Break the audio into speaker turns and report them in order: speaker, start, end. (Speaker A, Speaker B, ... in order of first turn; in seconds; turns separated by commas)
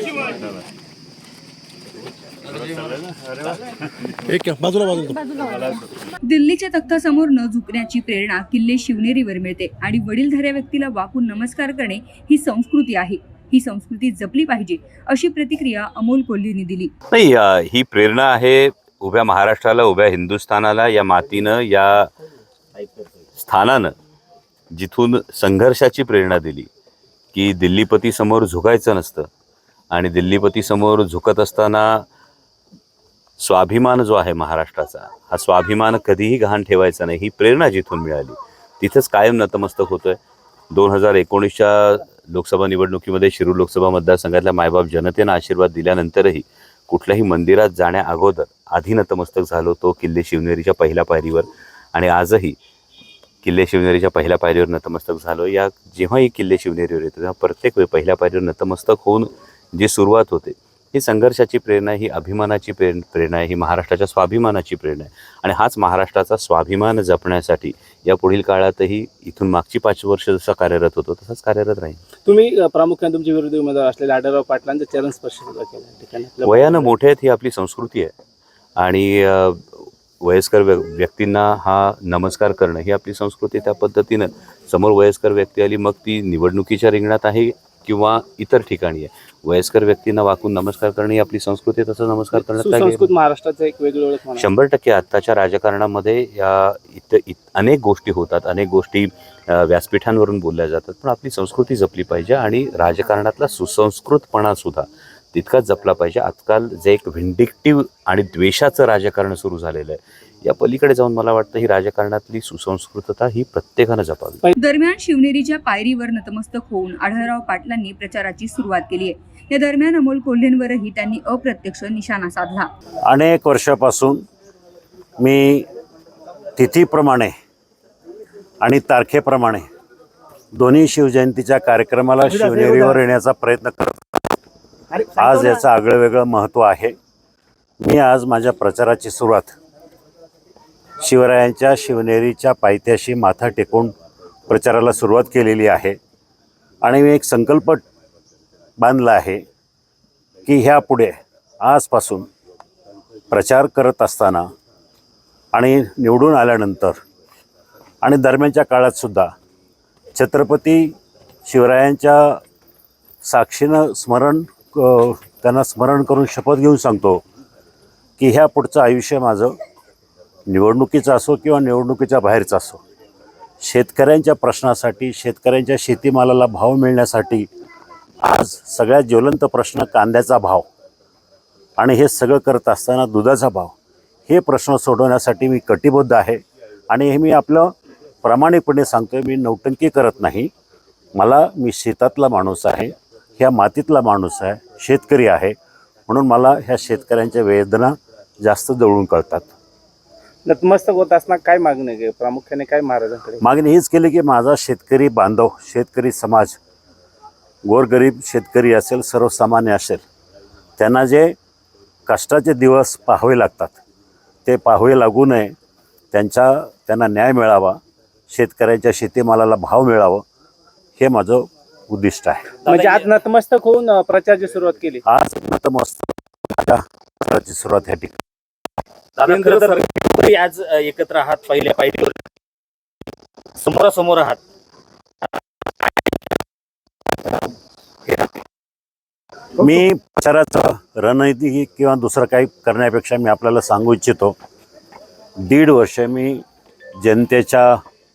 Speaker A: 6.2-16.9, Speaker B: 17.1-22.1, Speaker B: 23.4-23.9, Speaker B: 24.7-26.7, Speaker B: 27.3-29.3, Speaker B: 29.9-32.1, Speaker B: 33.4-40.2, Speaker B: 40.7-52.6, Speaker B: 53.4-72.0, Speaker C: 72.3-76.3, Speaker D: 72.3-75.5, Speaker D: 76.3-76.9, Speaker B: 76.4-78.1, Speaker B: 78.8-93.1, Speaker D: 92.5-94.5, Speaker C: 93.3-94.0, Speaker B: 94.3-114.4, Speaker A: 114.6-122.7, Speaker E: 123.1-124.2, Speaker E: 125.2-125.7, Speaker E: 126.6-127.3, Speaker E: 128.6-129.7, Speaker E: 130.5-134.2, Speaker E: 135.0-136.9, Speaker E: 137.8-139.6, Speaker E: 141.0-143.9, Speaker E: 144.5-146.0, Speaker E: 146.8-147.8, Speaker E: 148.8-149.4, Speaker E: 150.5-152.3, Speaker E: 153.3-154.5, Speaker E: 155.5-157.0, Speaker E: 158.0-159.3, Speaker E: 160.2-160.9, Speaker E: 161.5-162.4, Speaker E: 163.2-167.2, Speaker E: 168.2-169.6, Speaker E: 170.5-172.8, Speaker E: 173.6-177.5, Speaker E: 178.2-180.7, Speaker E: 181.8-183.7, Speaker E: 184.3-187.7, Speaker E: 188.2-190.5, Speaker E: 191.2-195.6, Speaker E: 196.1-199.5, Speaker D: 200.5-203.4, Speaker C: 201.0-202.2, Speaker C: 203.1-203.3, Speaker E: 203.4-206.6, Speaker E: 207.7-210.0, Speaker E: 210.8-211.3, Speaker E: 212.1-213.8, Speaker E: 214.5-215.5, Speaker E: 216.1-217.8, Speaker E: 218.3-220.2, Speaker E: 221.0-222.6, Speaker C: 222.6-223.3, Speaker D: 222.7-225.0, Speaker E: 225.1-228.2, Speaker C: 229.2-232.3, Speaker D: 229.3-229.8, Speaker C: 233.6-234.4, Speaker E: 239.6-244.4, Speaker E: 245.4-246.4, Speaker E: 247.0-247.8